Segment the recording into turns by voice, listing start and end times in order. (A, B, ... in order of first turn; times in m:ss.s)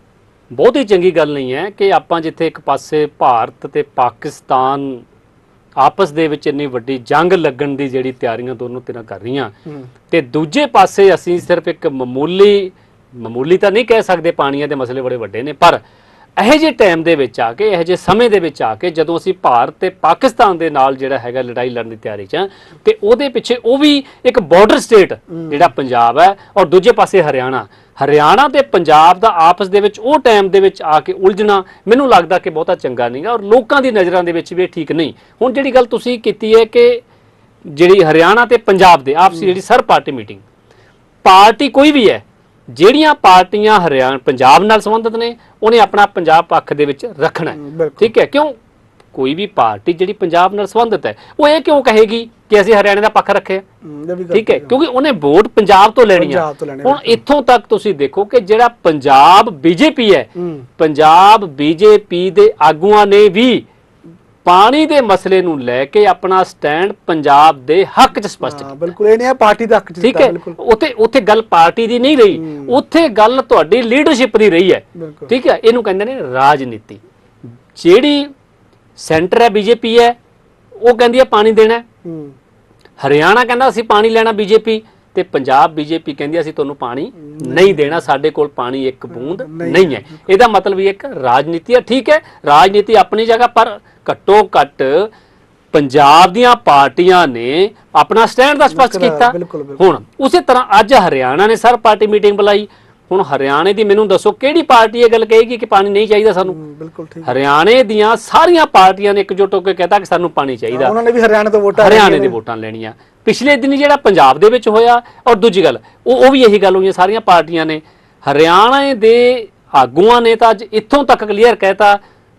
0:00.5-0:05.0 A
0:05.8-0:09.6 A
0:10.1-0:15.8 A
0:16.4-0:37.0 A
0:25.3-0:25.7 B
0:37.6-0:40.4 A
0:41.2-0:48.6 A
0:47.5-0:48.1 B
0:49.1-0:53.6 A
0:53.8-0:54.7 B
0:54.3-1:03.6 A
0:56.1-0:57.2 B
1:00.4-1:00.7 B
1:04.4-1:08.8 A
1:08.4-1:10.6 B
1:10.0-1:17.0 A
1:12.3-1:12.8 B
1:15.0-1:15.3 B
1:17.7-1:18.3 A
1:19.0-1:20.2 A
1:20.8-1:21.8 A
1:22.0-1:22.3 B
1:23.0-1:35.1 A
1:27.2-1:28.0 B
1:29.1-1:30.3 B
1:35.7-1:46.6 A
1:38.7-1:40.0 B
1:46.4-1:47.4 B
1:47.2-1:50.9 A
1:50.7-1:52.4 B
1:51.7-2:02.0 A